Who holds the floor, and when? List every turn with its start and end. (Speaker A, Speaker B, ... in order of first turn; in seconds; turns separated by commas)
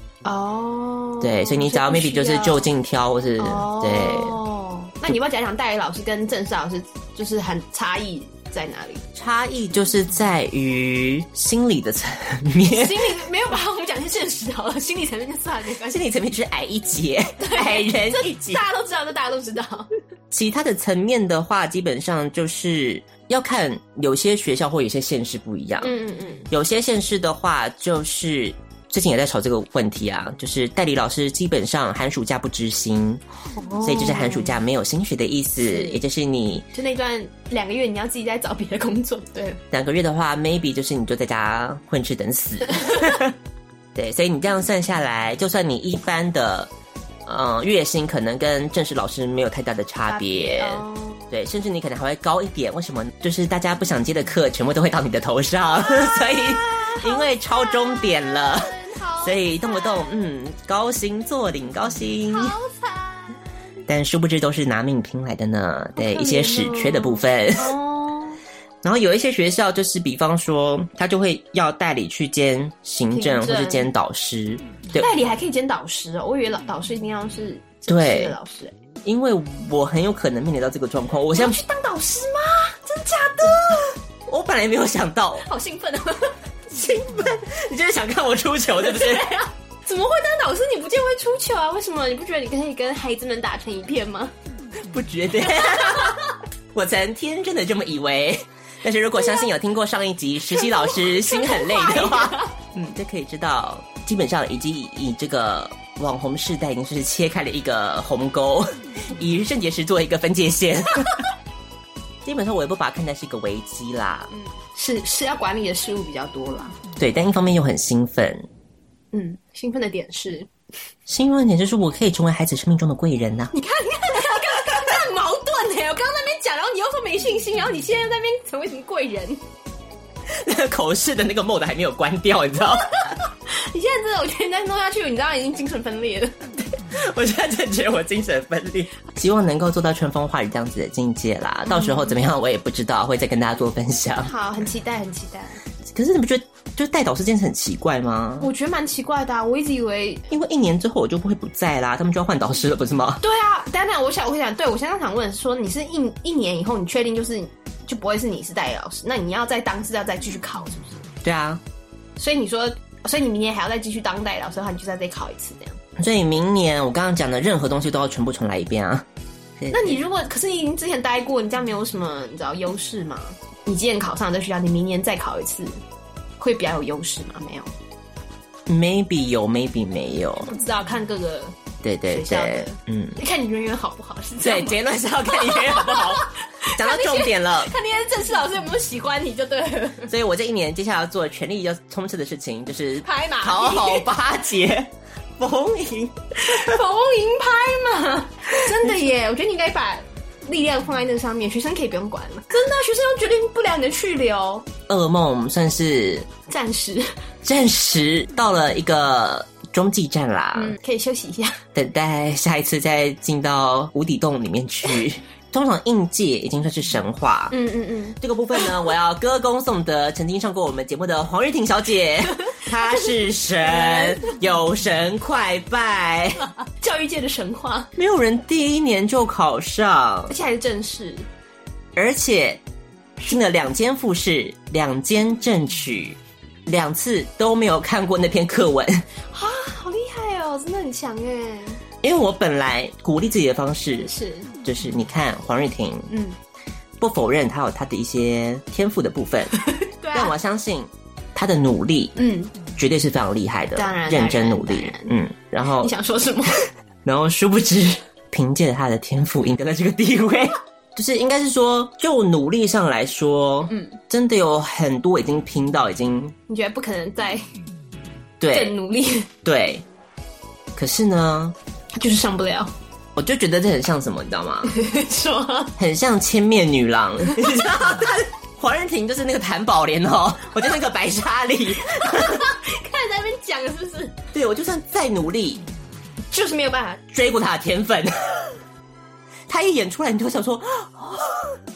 Speaker A: 0.2-2.7, Speaker B: 1.2-4.4, Speaker A: 3.4-9.1, Speaker B: 9.1-13.1, Speaker A: 12.7-16.0, Speaker B: 15.8-18.6, Speaker A: 17.4-19.9, Speaker B: 20.3-25.9, Speaker A: 25.8-26.5, Speaker B: 26.5-33.2, Speaker A: 33.5-34.5, Speaker B: 33.8-36.7, Speaker A: 35.6-36.0, Speaker A: 36.7-39.6, Speaker B: 39.7-43.3, Speaker A: 42.7-43.2, Speaker B: 43.9-46.7, Speaker B: 47.2-62.5, Speaker A: 50.1-51.3, Speaker A: 55.8-60.2, Speaker A: 62.3-63.4, Speaker B: 63.9-67.8, Speaker A: 66.0-68.4, Speaker B: 68.8-75.1, Speaker A: 73.1-73.8, Speaker A: 74.9-78.7, Speaker B: 77.9-78.3, Speaker B: 79.0-81.6, Speaker A: 81.3-84.0, Speaker B: 84.2-85.5, Speaker A: 85.4-86.4, Speaker B: 86.7-89.2, Speaker A: 88.8-94.3, Speaker B: 94.9-96.2, Speaker A: 95.6-96.2, Speaker B: 96.7-111.3, Speaker A: 100.5-102.5, Speaker B: 112.2-114.3, Speaker A: 114.3-116.8, Speaker B: 117.0-118.5, Speaker A: 119.1-120.5, Speaker B: 121.1-123.5, Speaker A: 123.5-129.4, Speaker B: 130.3-132.9, Speaker A: 133.5-136.3, Speaker B: 136.9-144.3, Speaker A: 141.8-142.1, Speaker A: 144.2-145.6, Speaker B: 145.8-148.5, Speaker A: 148.4-150.3, Speaker B: 150.3-153.2, Speaker A: 153.2-161.0, Speaker B: 161.2-161.6, Speaker A: 162.2-165.8, Speaker B: 166.0-169.1, Speaker B: 169.6-170.0, Speaker A: 169.7-175.8, Speaker A: 176.4-177.7, Speaker B: 178.7-180.5, Speaker A: 180.5-190.1, Speaker B: 181.8-183.2, Speaker B: 184.4-187.7, Speaker B: 190.1-196.8, Speaker A: 193.0-194.1, Speaker A: 196.4-204.7, Speaker B: 204.9-206.3, Speaker A: 206.5-207.1, Speaker B: 207.4-210.8, Speaker A: 210.5-211.6, Speaker B: 211.7-217.6, Speaker A: 217.5-218.7, Speaker B: 218.2-226.4, Speaker A: 223.7-224.3, Speaker A: 226.7-227.9, Speaker B: 228.0-230.3, Speaker A: 230.3-231.2, Speaker B: 231.9-232.6, Speaker B: 233.2-239.1, Speaker A: 239.3-241.8, Speaker B: 242.0-244.1, Speaker A: 244.0-244.5, Speaker B: 244.6-246.1, Speaker A: 246.1-246.4, Speaker B: 247.0-249.6, Speaker A: 249.7-250.3, Speaker B: 250.1-252.2, Speaker A: 252.2-252.5, Speaker B: 252.8-255.9, Speaker A: 253.7-255.1, Speaker A: 255.8-256.7, Speaker B: 257.0-266.3, Speaker A: 263.7-264.0, Speaker A: 266.5-267.4, Speaker B: 268.4-268.7, Speaker A: 268.5-269.3, Speaker B: 269.4-269.8, Speaker B: 270.8-271.6, Speaker A: 271.9-272.7, Speaker B: 273.1-274.8, Speaker A: 274.6-275.7, Speaker B: 275.8-282.4, Speaker A: 282.0-284.1, Speaker B: 284.3-285.6, Speaker A: 286.3-287.0, Speaker B: 287.1-288.4, Speaker B: 289.5-291.5